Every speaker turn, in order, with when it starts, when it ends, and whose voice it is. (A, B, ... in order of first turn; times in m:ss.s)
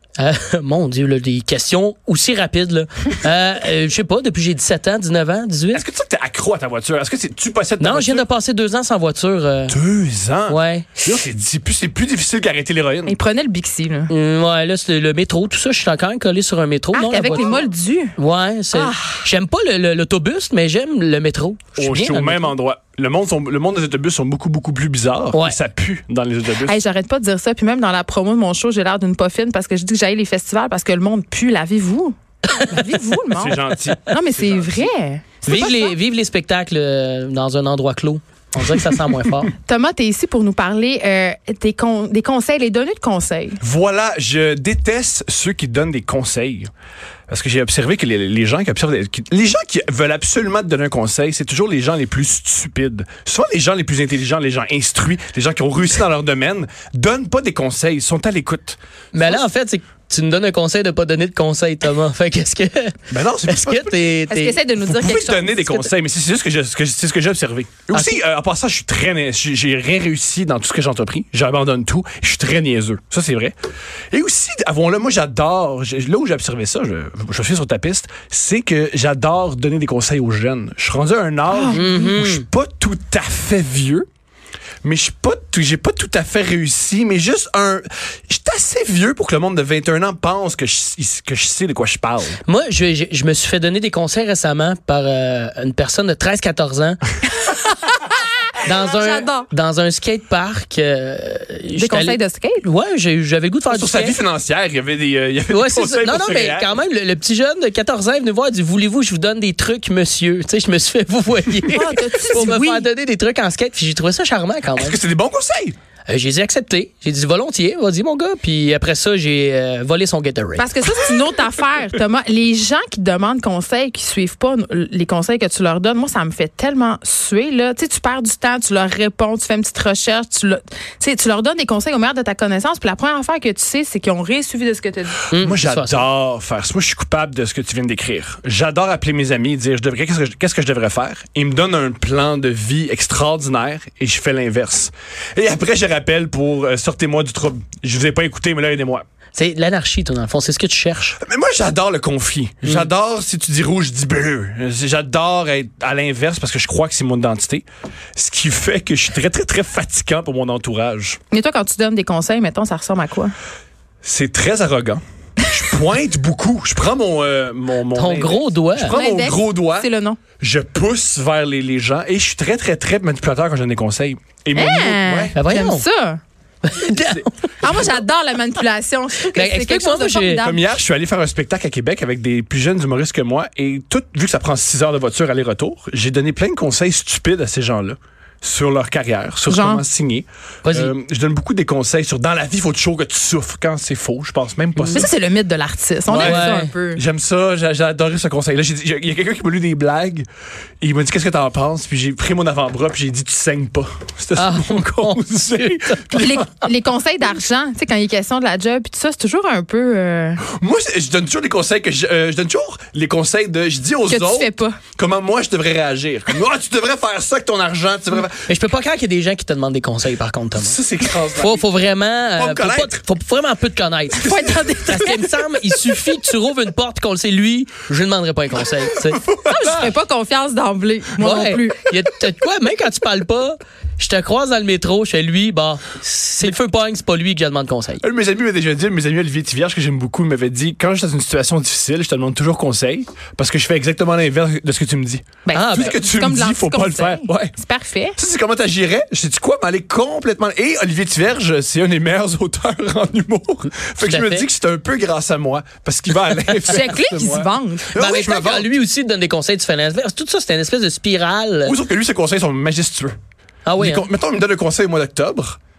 0:00.2-0:05.8 A
0:05.7-0:08.3 B
0:07.8-0:09.8 A
0:09.7-0:13.2 B
0:10.5-0:11.2 A
0:13.0-0:14.1 C
0:14.1-0:17.6 A
0:16.9-0:18.1 C
0:18.2-0:22.5 A
0:18.7-0:19.3 C
0:21.8-0:26.8 B
0:26.6-0:35.9 C
0:33.3-0:34.9 B
0:35.5-0:39.5 A
0:39.6-0:43.6 C
0:43.6-0:46.7 B
0:47.3-0:58.8 B
0:59.1-1:04.6 A
1:03.1-1:04.0 B
1:04.3-1:05.9 C
1:04.8-1:13.5 B
1:07.9-1:08.2 A
1:14.1-1:24.0 B
1:21.5-1:22.1 C
1:21.7-1:22.4 A
1:24.8-1:32.4 B
1:32.5-1:37.0 A
1:37.4-1:38.0 C
1:38.6-1:44.2 A
1:38.9-1:39.5 C
1:41.8-1:42.6 C
1:43.7-1:46.8 B
1:45.5-1:55.0 A
1:51.7-1:52.9 C
1:51.8-1:52.1 B
1:54.8-1:55.7 B
1:56.1-2:00.7 A
2:00.6-2:15.3 C
2:15.3-2:16.0 A
2:15.4-2:29.0 B
2:29.3-2:31.2 A
2:31.2-2:37.6 B
2:38.2-2:41.2 B
2:41.3-2:43.3 C
2:44.0-2:49.9 B
2:47.9-2:49.0 A
2:48.9-2:50.2 C
2:50.4-2:55.4 B
2:54.5-2:56.2 C
2:55.3-2:55.8 A
2:56.6-2:57.8 A
2:57.0-2:57.8 B
2:57.6-3:00.7 C
2:59.3-3:00.4 A
3:00.4-3:15.1 B
3:09.5-3:09.8 C
3:10.6-3:10.9 A
3:14.8-3:15.0 A
3:14.9-3:17.0 C
3:16.1-3:16.7 A
3:16.1-3:20.3 B
3:20.8-3:26.5 B
3:24.4-3:26.2 A
3:26.1-3:30.4 C
3:30.4-3:38.5 B
3:34.1-3:34.8 C
3:38.4-3:49.9 A
3:40.6-3:41.7 B
3:42.4-3:43.0 B
3:44.2-3:45.2 C
3:48.7-3:49.6 B
3:49.4-3:51.9 C
3:51.2-3:58.0 A
3:58.0-4:07.5 B
4:05.4-4:08.2 C
4:05.5-4:05.9 A
4:08.2-4:18.7 B
4:14.0-4:14.4 A
4:16.7-4:17.9 C
4:17.9-4:21.7 A
4:21.6-4:23.2 B
4:23.6-4:24.1 A
4:23.8-4:25.6 B